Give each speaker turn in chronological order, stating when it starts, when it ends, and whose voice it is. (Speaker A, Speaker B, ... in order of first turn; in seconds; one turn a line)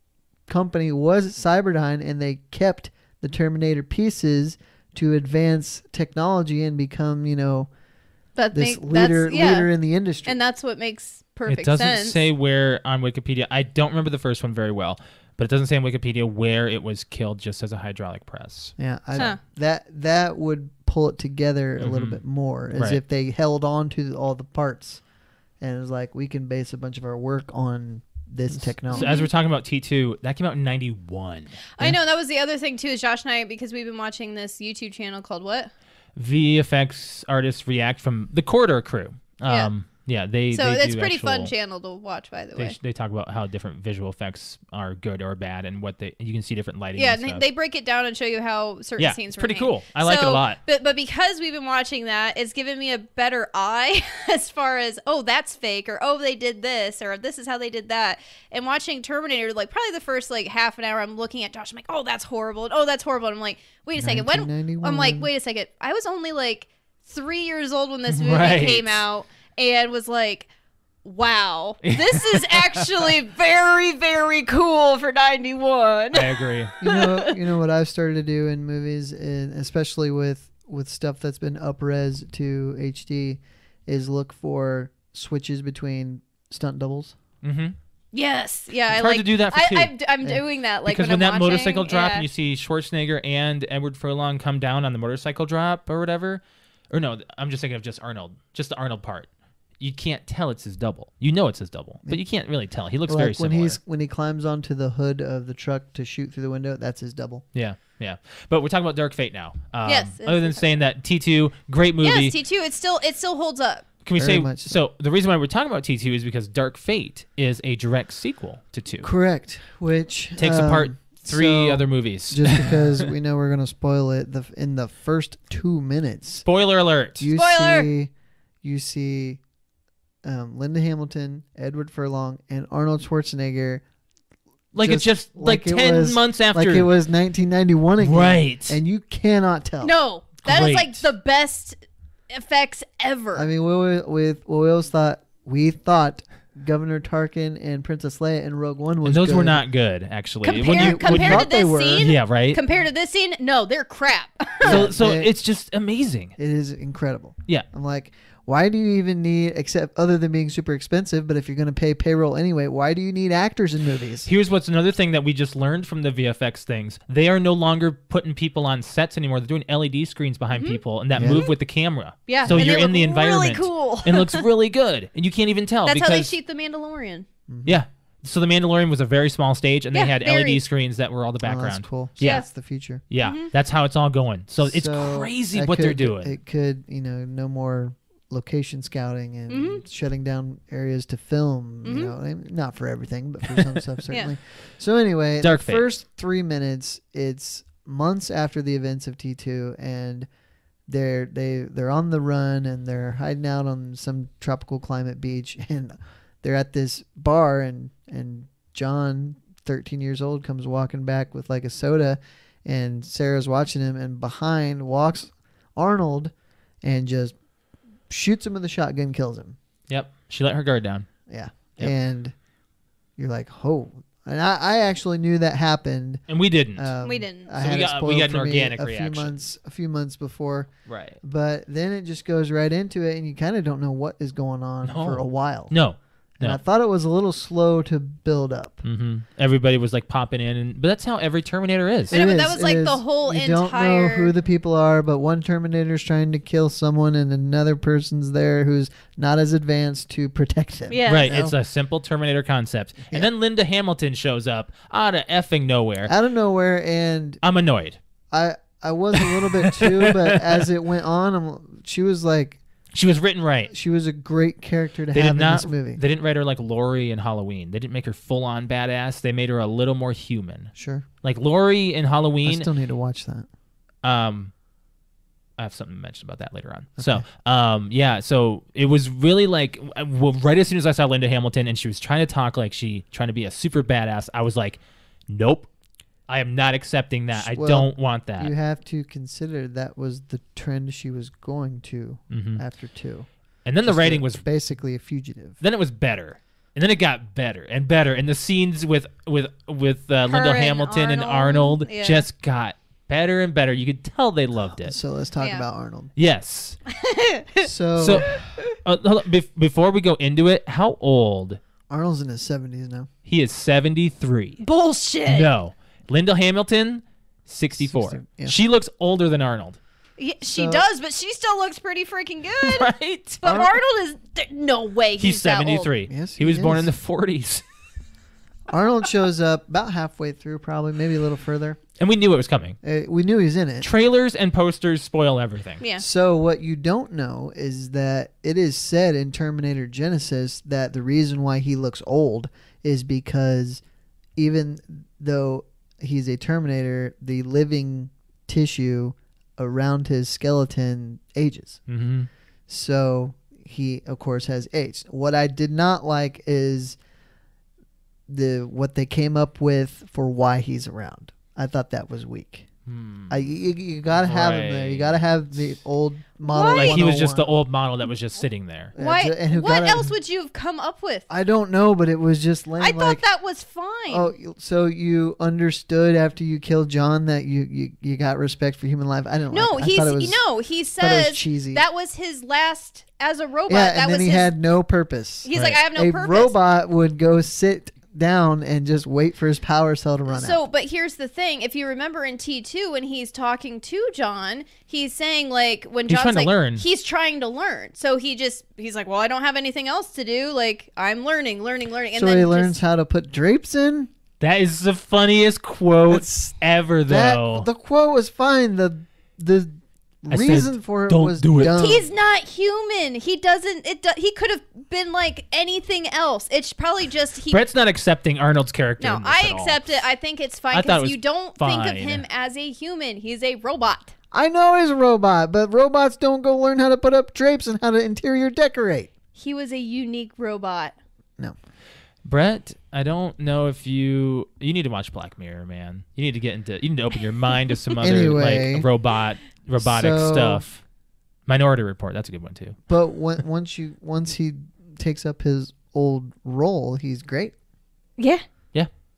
Speaker A: 0.5-7.7
Speaker B: 8.4-9.7
Speaker A: 8.5-10.4
Speaker B: 10.2-12.2
Speaker C: 11.5-19.4
Speaker A: 18.8-25.0
Speaker C: 21.8-22.2
Speaker C: 22.7-23.0
Speaker A: 25.6-29.1
Speaker C: 28.9-31.7
Speaker B: 28.9-29.3
Speaker B: 31.8-35.7
Speaker C: 36.2-41.5
Speaker B: 40.5-42.8
Speaker C: 42.6-47.4
Speaker B: 47.0-70.5
Speaker C: 49.0-50.6
Speaker A: 64.0-65.3
Speaker C: 68.1-69.0
Speaker B: 71.0-77.3
Speaker C: 71.8-73.1
Speaker C: 76.1-76.7
Speaker A: 76.8-87.2
Speaker C: 87.4-87.8
Speaker B: 88.1-92.3
Speaker C: 88.9-89.9
Speaker C: 90.8-103.8
Speaker A: 103.1-107.4
Speaker C: 107.5-112.4
Speaker B: 109.9-110.7
Speaker B: 112.0-113.9
Speaker C: 114.0-119.1
Speaker A: 114.2-114.8
Speaker A: 119.0-126.5
Speaker C: 120.4-123.1
Speaker C: 126.5-127.3
Speaker A: 127.2-128.1
Speaker B: 127.3-127.9
Speaker A: 128.6-129.4
Speaker A: 130.2-133.8
Speaker C: 134.7-136.9
Speaker A: 134.8-139.9
Speaker C: 138.0-138.8
Speaker B: 139.8-141.8
Speaker C: 140.4-141.1
Speaker B: 142.3-143.5
Speaker A: 143.3-149.6
Speaker C: 149.0-151.5
Speaker B: 150.4-154.9
Speaker A: 150.7-152.1
Speaker C: 152.0-152.6
Speaker A: 154.6-155.3
Speaker C: 154.6-156.3
Speaker A: 156.4-164.3
Speaker C: 164.2-176.3
Speaker B: 170.6-171.5
Speaker A: 171.2-171.5
Speaker B: 172.3-174.5
Speaker A: 172.4-172.8
Speaker B: 175.8-177.3
Speaker A: 177.5-177.8
Speaker C: 177.7-182.4
Speaker B: 179.9-180.6
Speaker A: 181.4-183.0
Speaker B: 182.2-182.5
Speaker C: 183.1-186.3
Speaker B: 183.2-183.5
Speaker A: 184.6-200.3
Speaker B: 189.5-189.8
Speaker B: 191.8-192.1
Speaker C: 193.5-193.8
Speaker C: 195.4-195.8
Speaker A: 200.9-217.3
Speaker A: 218.1-219.6
Speaker C: 219.9-221.1
Speaker A: 221.3-222.3
Speaker A: 223.2-226.2
Speaker C: 226.3-226.9
Speaker A: 226.8-235.7
Speaker B: 227.0-227.5
Speaker C: 227.6-229.4
Speaker C: 230.9-231.2
Speaker C: 234.8-236.6
Speaker A: 236.4-238.8
Speaker C: 238.8-242.2
Speaker A: 242.1-251.6
Speaker B: 242.1-244.3
Speaker B: 250.9-251.3
Speaker C: 251.1-256.1
Speaker A: 256.1-257.4
Speaker C: 257.4-258.0
Speaker A: 258.3-262.6
Speaker C: 259.2-260.7
Speaker C: 262.9-263.7
Speaker A: 263.7-266.0
Speaker C: 265.1-272.7
Speaker A: 270.8-271.1
Speaker A: 272.4-273.5
Speaker C: 274.0-274.5
Speaker C: 275.6-285.7
Speaker A: 277.0-277.2
Speaker C: 286.3-288.5
Speaker A: 287.3-293.3
Speaker C: 292.3-292.6
Speaker C: 293.6-294.4
Speaker A: 293.9-295.6
Speaker C: 295.6-305.0
Speaker B: 300.3-302.2
Speaker A: 304.8-306.1
Speaker B: 305.4-305.6
Speaker C: 306.2-306.8
Speaker B: 306.9-307.7
Speaker A: 307.6-308.4
Speaker C: 308.0-308.3
Speaker C: 308.8-311.6
Speaker A: 311.9-313.1
Speaker C: 313.3-314.6
Speaker B: 314.6-315.5
Speaker C: 315.3-319.8
Speaker A: 317.8-318.6
Speaker B: 320.2-325.9
Speaker A: 320.5-320.9
Speaker C: 322.6-323.5
Speaker A: 323.4-323.8
Speaker C: 325.2-327.6
Speaker A: 326.1-326.9
Speaker A: 328.7-331.8
Speaker C: 332.0-332.8
Speaker A: 332.8-333.9
Speaker C: 333.8-335.8
Speaker A: 336.0-343.8
Speaker A: 344.4-351.8
Speaker C: 351.9-352.3
Speaker A: 352.7-357.0
Speaker A: 358.3-362.7
Speaker C: 362.9-363.4
Speaker A: 363.3-367.5
Speaker C: 364.1-365.3
Speaker B: 366.5-367.0
Speaker C: 366.7-368.9
Speaker A: 369.0-370.1
Speaker B: 369.0-371.3
Speaker A: 371.3-373.2
Speaker B: 372.8-374.3
Speaker A: 374.1-380.4
Speaker B: 379.5-384.5
Speaker A: 381.0-381.8
Speaker A: 383.7-390.6
Speaker B: 385.4-386.6
Speaker B: 390.3-402.8
Speaker C: 396.1-396.9
Speaker A: 402.1-404.1
Speaker C: 404.4-407.7
Speaker A: 406.1-412.1
Speaker C: 410.3-411.8
Speaker B: 411.8-417.6
Speaker C: 417.5-419.9
Speaker B: 419.0-424.1
Speaker C: 420.7-422.2
Speaker A: 424.3-429.1
Speaker B: 429.4-430.9
Speaker C: 432.2-440.8
Speaker A: 438.0-438.9
Speaker A: 439.8-440.6
Speaker C: 441.5-442.8
Speaker A: 442.9-447.5
Speaker B: 448.2-448.4